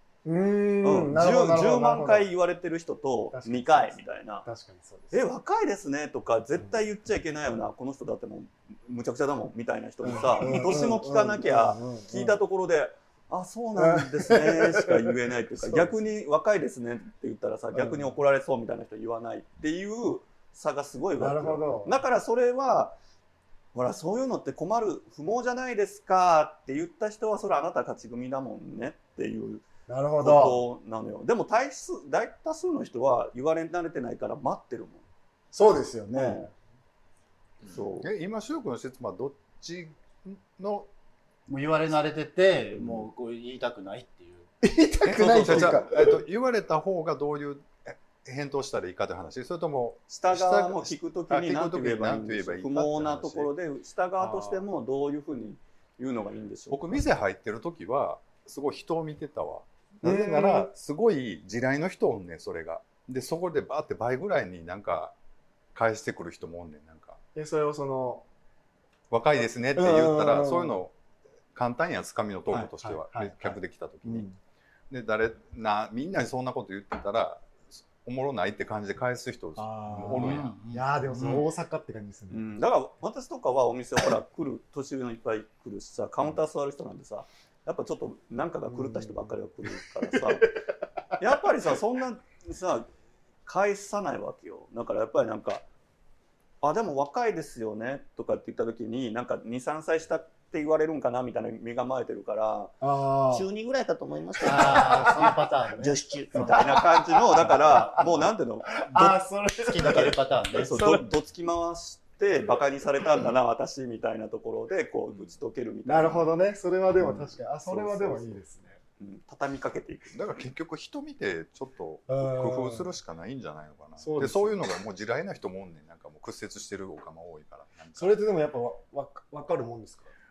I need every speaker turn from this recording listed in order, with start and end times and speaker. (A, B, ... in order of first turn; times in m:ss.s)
0:00.2-0:02.3 A
0:00.8-0:04.5 B
0:03.3-0:05.2 A
0:05.1-0:23.0 B
0:10.0-0:12.4 A
0:13.8-0:15.9 A
0:17.7-0:18.2 A
0:21.2-0:22.0 A
0:23.8-0:29.7 B
0:29.9-0:30.7 A
0:30.2-0:35.0 B
0:35.5-0:36.5 A
0:36.1-0:36.5 B
0:37.6-0:38.1 B
0:37.7-0:40.9 C
0:41.5-0:44.5 D
0:44.6-0:46.2 A
0:45.1-0:53.5 C
0:45.1-0:45.9 B
0:50.1-0:57.1 B
0:56.7-1:05.2 C
1:00.0-1:00.7 A
1:05.7-1:07.2 C
1:07.4-1:08.2 A
1:09.1-1:10.9 C
1:09.8-1:10.8 A
1:11.6-1:14.3 C
1:12.5-1:14.4 A
1:14.9-1:20.7 C
1:19.6-1:22.6 A
1:19.9-1:21.4 D
1:22.3-1:30.5 B
1:28.7-1:30.6 A
1:31.2-1:32.9 B
1:33.5-1:35.7 B
1:36.6-1:42.8 B
1:42.8-1:43.5 A
1:43.3-1:47.0 E
1:44.4-1:45.4 A
1:44.4-1:46.0 D
1:46.3-1:48.9 B
1:46.4-1:51.1 A
1:48.9-1:51.0 D
1:49.9-1:56.3 B
1:55.9-1:58.8 A
1:57.6-1:58.4 B
1:59.0-2:00.3 B
2:00.1-2:08.2 C
2:02.1-2:02.9 A
2:04.0-2:04.6 A
2:08.0-2:10.1 A